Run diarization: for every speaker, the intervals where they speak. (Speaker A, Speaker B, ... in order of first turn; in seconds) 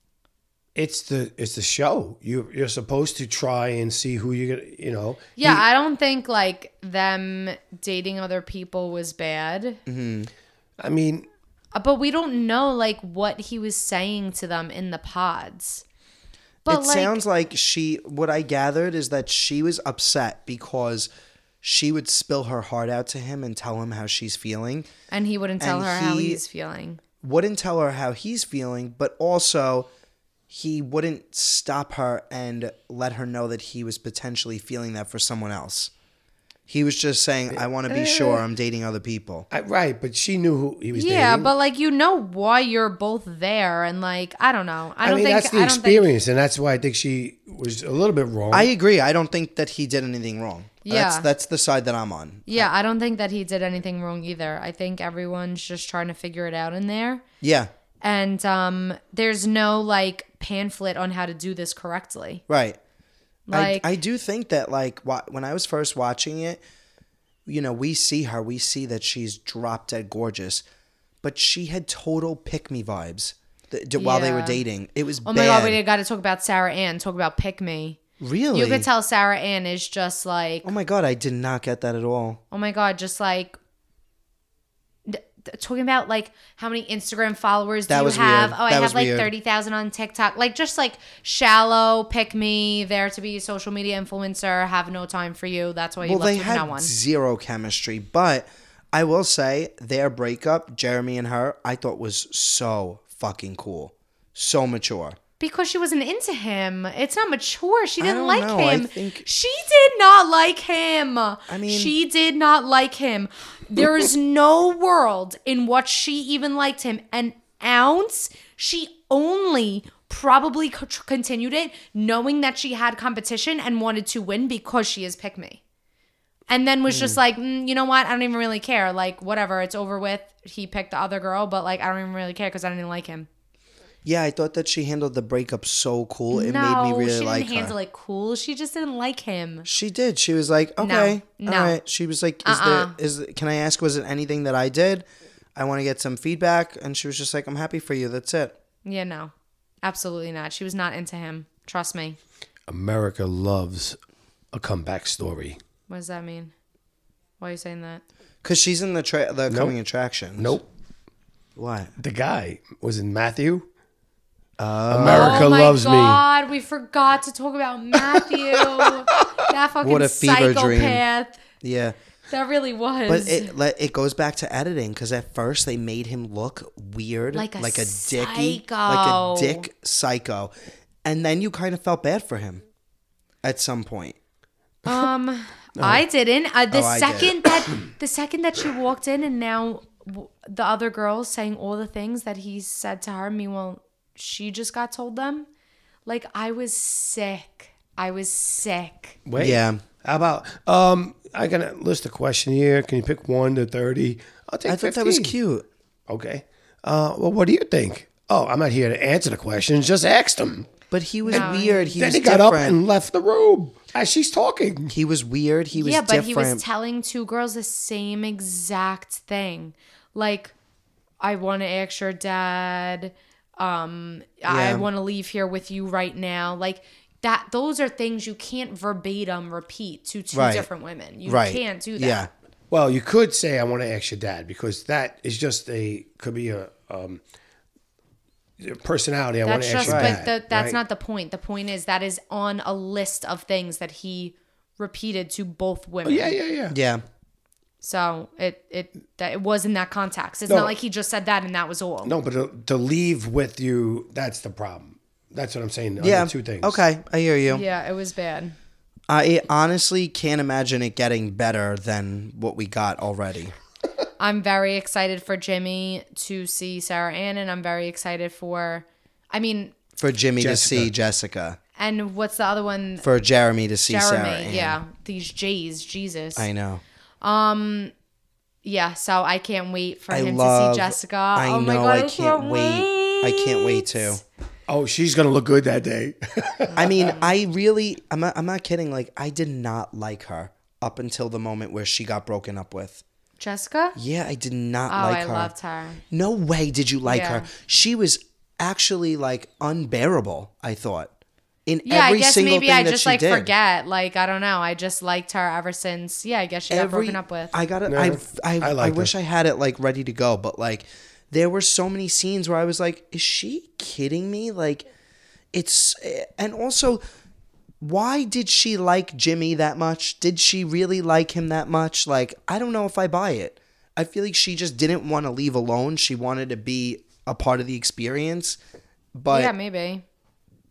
Speaker A: 0.8-5.6, 10.8-11.3, 37.5-38.4, 39.5-41.5, 45.0-48.7, 152.7-154.0, 154.5-155.6, 159.5-159.8, 160.3-160.7, 162.0-163.7, 164.6-166.2, 168.8-169.2, 185.8-186.0, 199.3-205.3, 206.1-210.7, 211.3-214.9, 232.7-237.2, 238.6-240.8, 246.1-246.8, 250.5-250.7, 252.1-256.8, 270.4-270.9, 284.7-286.7, 307.9-309.1
Speaker B: 5.4-9.8, 11.8-15.8, 16.6-17.2, 25.1-27.0, 40.9-46.1, 50.9-51.3, 52.5-57.2, 58.0-62.4, 63.5-63.9, 74.0-74.6, 75.2-78.0, 78.5-80.7, 82.5-83.6, 85.1-96.9, 105.4-125.6, 126.5-133.3, 136.3-139.7, 140.8-141.8, 142.4-143.0, 148.8-149.3, 149.8-152.2, 155.9-156.5, 157.4-158.0, 165.1-171.4, 172.3-173.5, 177.3-179.7, 184.9-195.5, 196.1-199.2, 211.3-212.0, 215.7-220.5, 221.2-232.3, 239.4-246.3, 247.8-252.2, 257.5-258.6, 264.2-269.8, 271.8-273.1, 273.9-276.5, 277.2-277.9, 278.6-284.2, 286.7-287.3, 293.4-294.0, 294.9-296.0, 297.1-297.5, 301.9-307.6, 329.3-330.0
Speaker C: 9.9-10.3, 16.7-21.1, 21.6-24.9, 25.6-26.4, 27.2-29.9, 30.5-35.9, 36.7-39.5, 48.5-52.7, 57.4-57.7, 62.5-62.8, 63.5-66.6, 67.5-70.7, 71.2-75.8, 78.2-78.9, 80.6-82.4, 87.9-89.3, 96.0-105.2, 108.0-109.3, 111.5-111.9, 126.9-127.2, 134.0-137.8, 139.7-148.6, 158.4-160.6, 161.6-161.9, 164.6-165.5, 169.8-171.0, 171.6-172.0, 173.1-180.5, 181.0-182.6, 183.4-184.2, 186.7-187.6, 199.4-199.8, 204.7-205.7, 210.9-212.8, 214.9-216.6, 224.5-224.9, 230.3-230.7, 231.2-232.3, 239.8-240.2, 246.7-247.0, 256.0-257.6, 259.1-263.5, 270.0-271.6, 273.0-274.8, 276.4-276.8, 280.1-284.2, 286.8-293.0, 293.9-295.5, 296.1-301.1, 301.7-303.5, 306.7-314.9, 315.5-317.0, 317.8-328.6, 329.1-329.5